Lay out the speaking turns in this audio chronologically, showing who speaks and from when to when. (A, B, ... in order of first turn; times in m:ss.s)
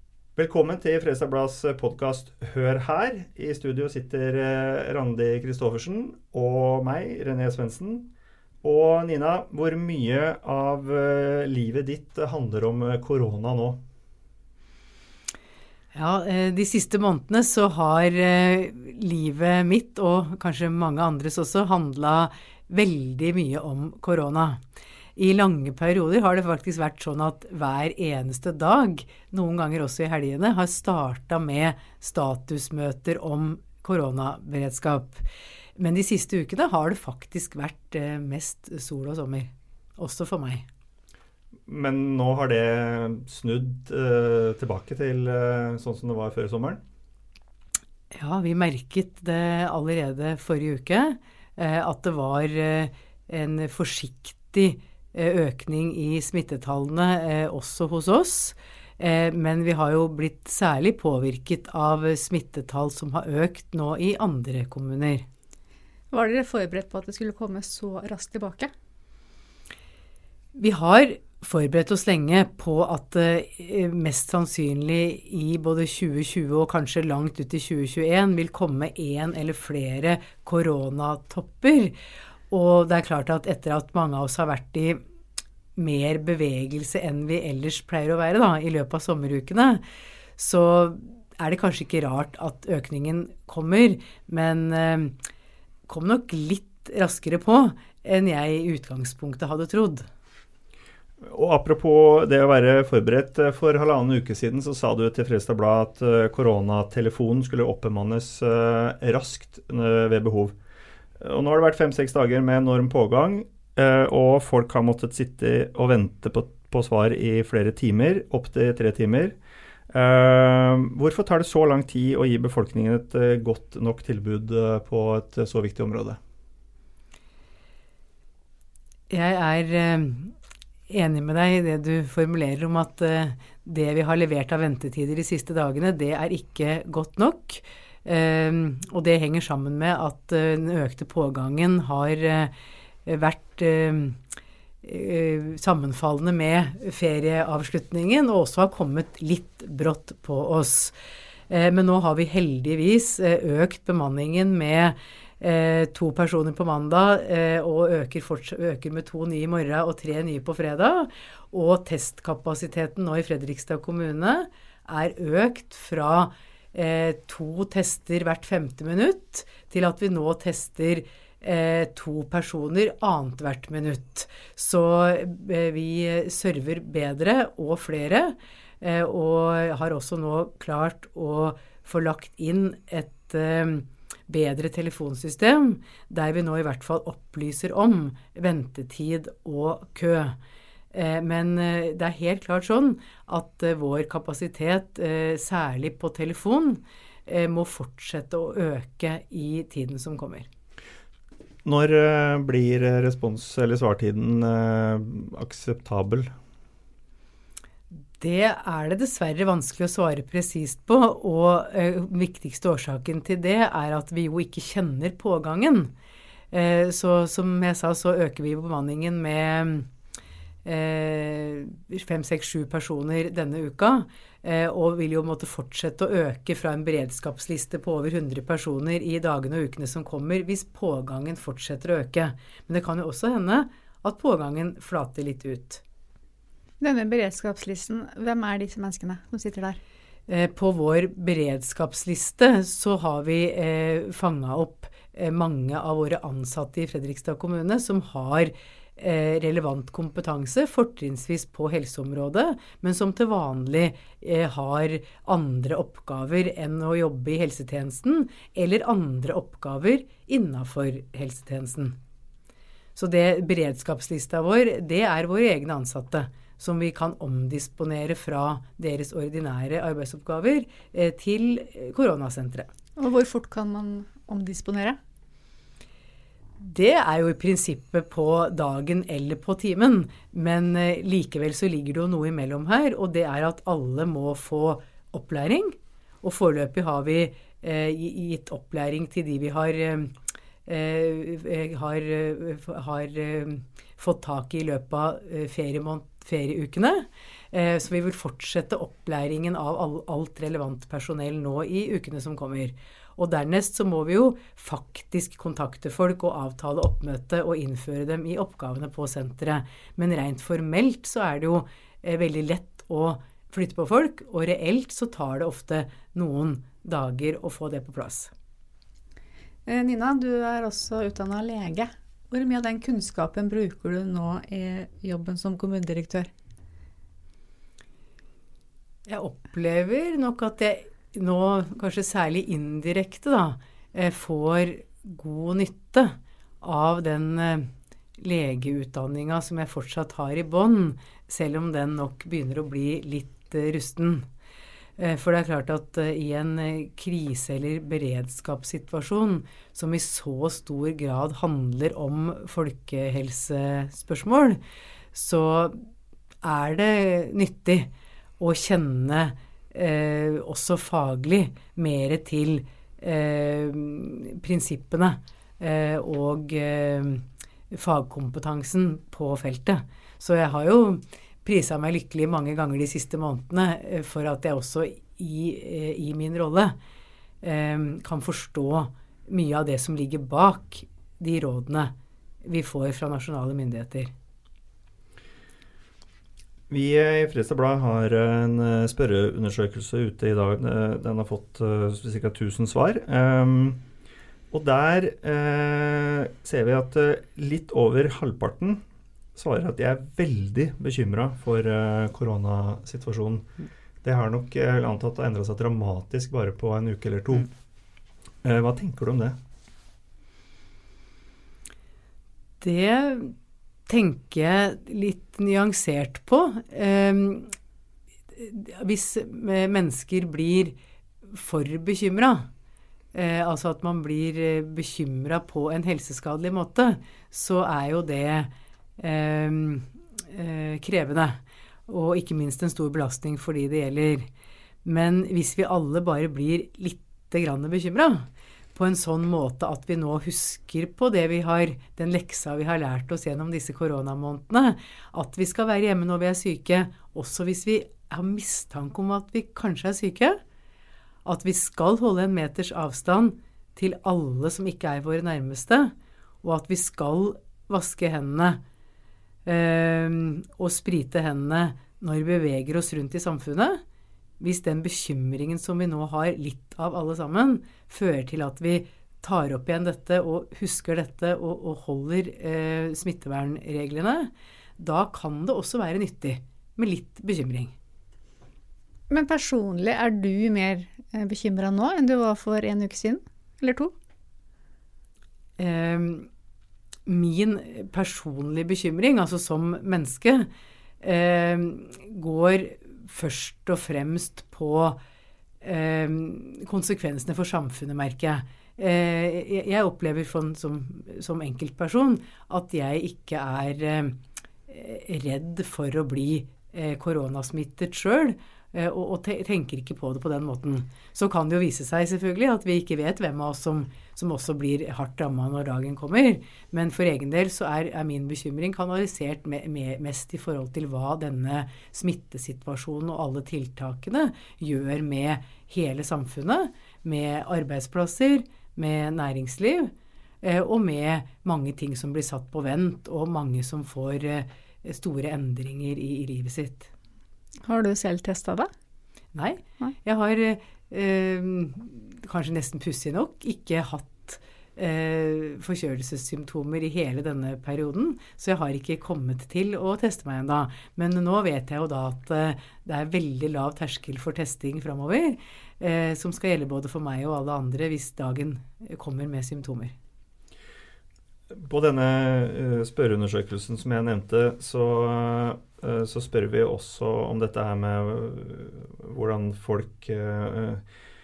0:00.4-0:08.1 A
0:08.6-0:13.8 A
0:15.9-0:24.6 B
0:25.2-0:40.7 B
0:41.7-0:46.8 A
0:48.1-1:05.3 B
1:06.1-1:08.7 C
1:10.5-1:22.0 B
1:22.5-1:25.0 B
1:25.8-1:29.8 B
1:30.4-1:35.2 B
1:35.9-1:40.1 B
1:41.2-1:50.5 A
1:51.2-1:59.4 A
1:59.9-2:06.2 A
2:09.1-2:10.4 B
2:10.9-2:22.5 B
2:23.0-2:24.2 B
2:24.8-2:30.9 B
2:31.5-3:10.4 B
3:10.9-3:20.5 B
3:21.6-3:26.3 A
3:28.2-3:35.9 B
3:36.5-3:39.9 B
3:40.6-3:55.8 B
3:56.8-3:59.8 C
4:00.3-4:22.0 B
4:23.0-4:32.7 B
4:33.0-4:35.0 C
4:36.6-5:18.3 B
5:19.7-5:26.3 C
5:29.1-5:44.3 B
5:45.0-5:54.6 B
5:55.1-5:55.8 B
5:56.4-6:16.8 B
6:17.4-6:21.9 B
6:22.4-6:24.1 B
6:26.7-6:33.8 A
6:34.5-6:38.8 A
6:39.4-6:43.5 A
6:44.0-6:47.5 A
6:48.4-6:49.4 A
6:52.6-6:53.4 B
6:53.9-6:57.5 B
6:58.3-7:00.8 B
7:01.3-7:02.5 B
7:03.1-7:14.3 B
7:14.8-7:30.4 B
7:31.2-7:38.6 B
7:39.4-7:43.8 B
7:44.4-7:57.8 B
7:59.1-8:03.9 C
8:05.6-8:06.3 B
8:07.1-8:10.5 B
8:11.0-8:15.0 B
8:15.6-8:56.9 B
8:57.6-8:58.7 C
8:59.3-9:20.0 B
9:21.6-9:30.8 A